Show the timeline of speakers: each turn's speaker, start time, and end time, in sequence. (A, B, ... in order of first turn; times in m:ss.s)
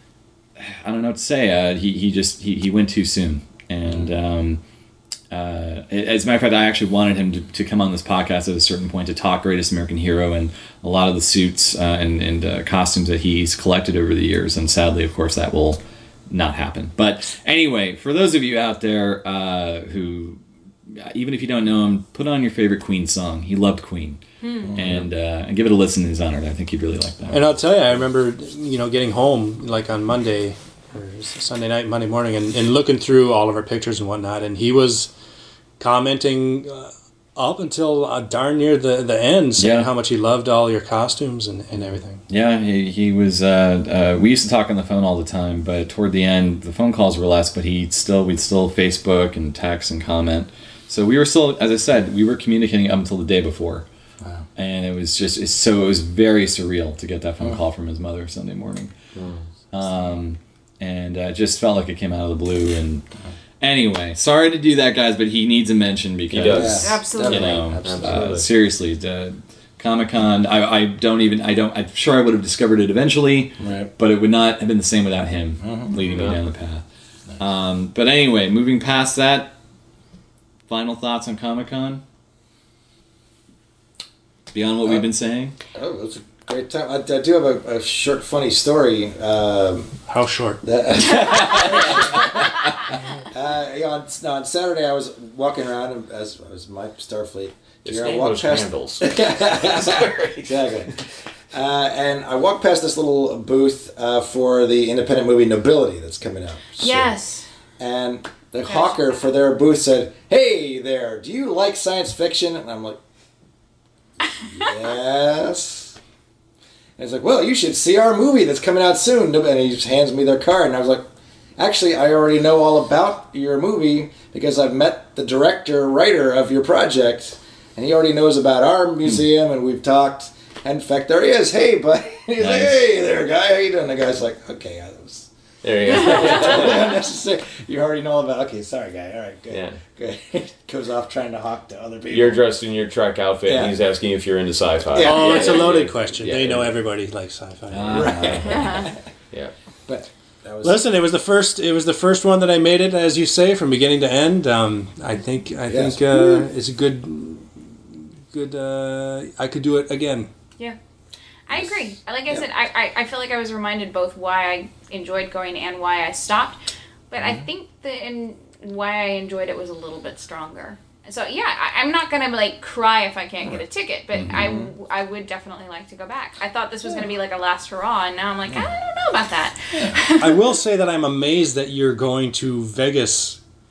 0:00.6-0:04.6 A
0:05.3-0:24.2 A
0:24.4-0:24.8 B
0:24.6-0:25.1 C
0:24.7-0:27.6 A
0:27.3-0:35.1 D
0:35.8-0:42.2 D
0:39.6-0:39.9 A
0:42.3-0:53.8 A
0:54.6-0:58.9 A
0:59.7-1:03.0 A
1:03.6-1:16.8 A
1:06.3-1:07.1 E
1:06.5-1:08.4 C
1:06.8-1:07.8 B
1:07.8-1:08.4 E
1:13.6-1:13.9 C
1:15.6-1:15.9 C
1:16.1-1:16.4 E
1:17.4-1:19.5 A
1:20.7-1:22.0 A
1:24.5-1:25.6 A
1:25.7-1:29.9 C
1:30.1-1:30.6 D
1:30.6-1:32.7 C
1:31.1-1:32.0 A
1:33.3-1:41.0 C
1:37.8-1:40.7 E
1:41.5-1:47.1 C
1:46.8-1:47.4 B
1:47.8-1:53.0 C
1:48.6-1:49.1 B
1:54.5-1:56.0 C
1:57.0-2:22.5 C
2:12.4-2:12.8 A
2:15.6-2:17.0 E
2:19.5-2:19.8 E
2:22.1-2:26.6 E
2:23.4-2:23.7 C
2:24.9-2:25.9 C
2:25.0-2:28.3 D
2:27.7-2:28.8 A
2:27.9-2:28.9 C
2:28.5-2:28.9 B
2:29.8-2:30.9 C
2:30.6-2:40.3 D
2:35.7-2:36.4 C
2:41.5-2:46.6 B
2:41.5-2:42.4 C
2:47.1-3:00.6 B
2:54.1-2:54.6 A
2:54.2-2:54.7 C
2:58.5-2:58.8 C
3:00.2-3:03.4 D